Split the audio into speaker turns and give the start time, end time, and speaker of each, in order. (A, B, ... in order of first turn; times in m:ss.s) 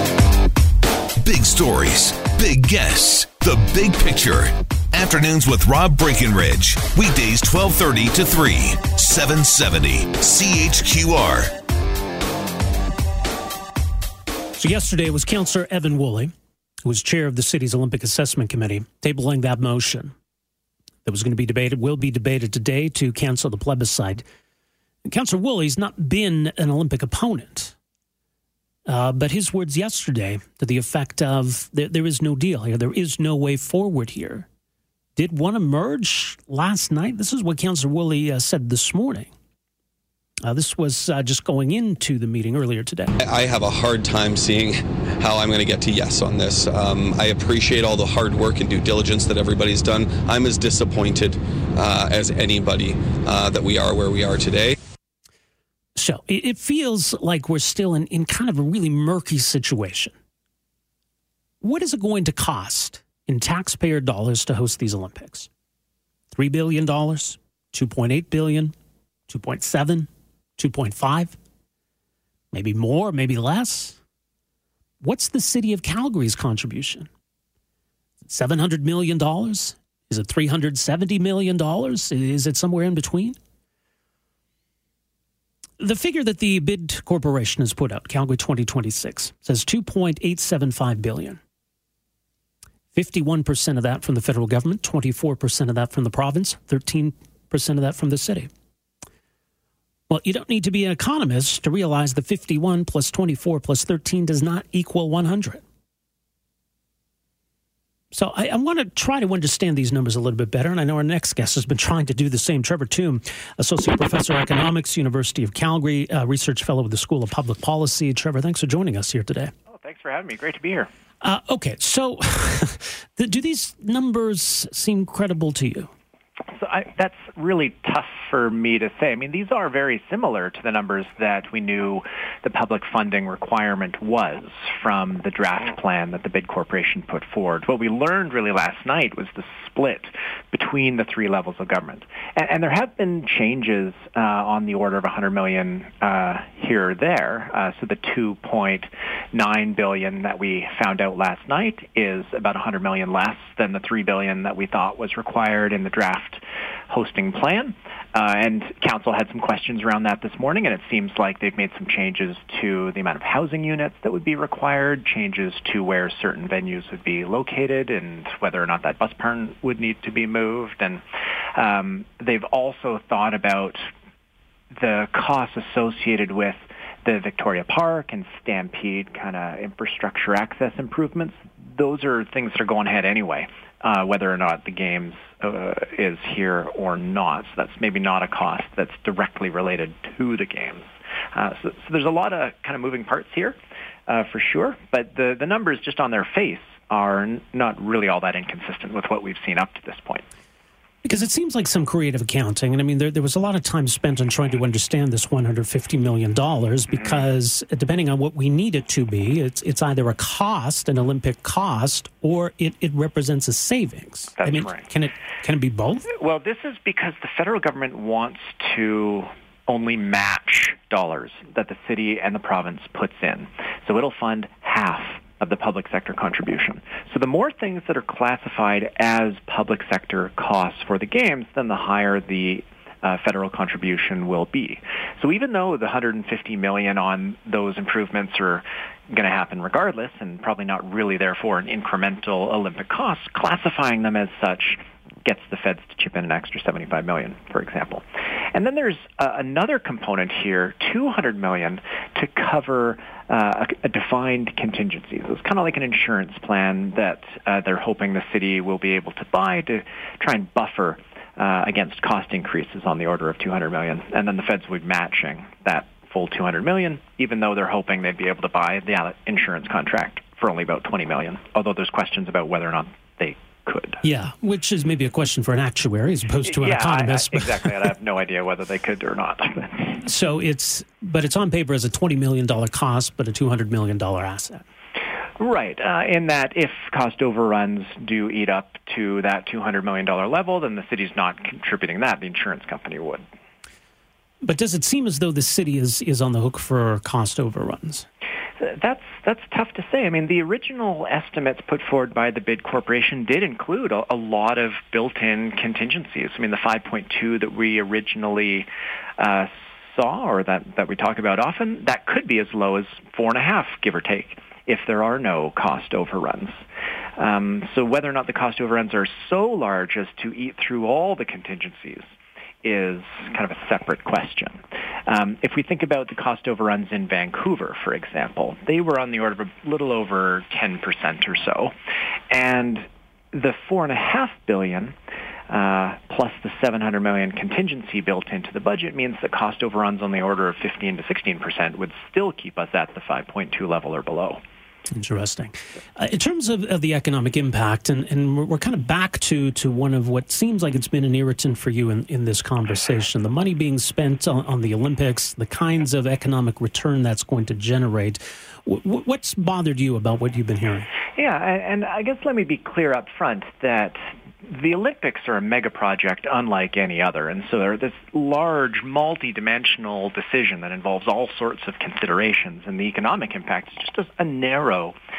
0:01.2-0:11.5 A
0:14.6-0:16.3 B
0:16.8-0:20.1 B
0:21.0-0:24.2 B
0:25.0-0:27.7 B
0:28.8-0:34.5 B
0:35.2-0:39.3 B
0:40.4-0:43.1 B
0:43.2-0:54.8 C
0:56.0-1:00.1 B
1:01.6-1:05.5 B
1:06.3-1:08.7 B
1:09.3-1:11.4 B
1:12.5-1:14.0 B
1:15.0-1:17.1 B
1:18.2-1:23.4 B
1:25.8-1:31.4 B
1:32.9-1:38.5 B
1:40.1-1:45.6 B
1:48.1-1:59.5 B
1:59.7-2:00.9 D
2:01.2-2:05.9 B
2:06.6-2:51.0 D
2:51.6-2:53.8 D
2:54.8-3:13.6 D
3:14.1-3:20.2 D
3:21.0-3:36.1 B
3:26.9-3:27.2 D
3:34.4-3:34.8 D
3:36.2-4:34.0 D
4:34.0-4:37.6 B
4:36.4-4:40.0 D
4:40.0-4:44.6 B
4:45.4-4:53.2 D
4:54.4-4:58.1 B
4:58.6-5:08.7 D
5:09.2-5:16.6 D
5:17.2-5:22.1 D
5:22.6-5:31.7 D
5:32.3-5:34.9 D
5:35.5-5:44.4 D
5:44.9-6:00.9 B
6:01.2-6:14.9 D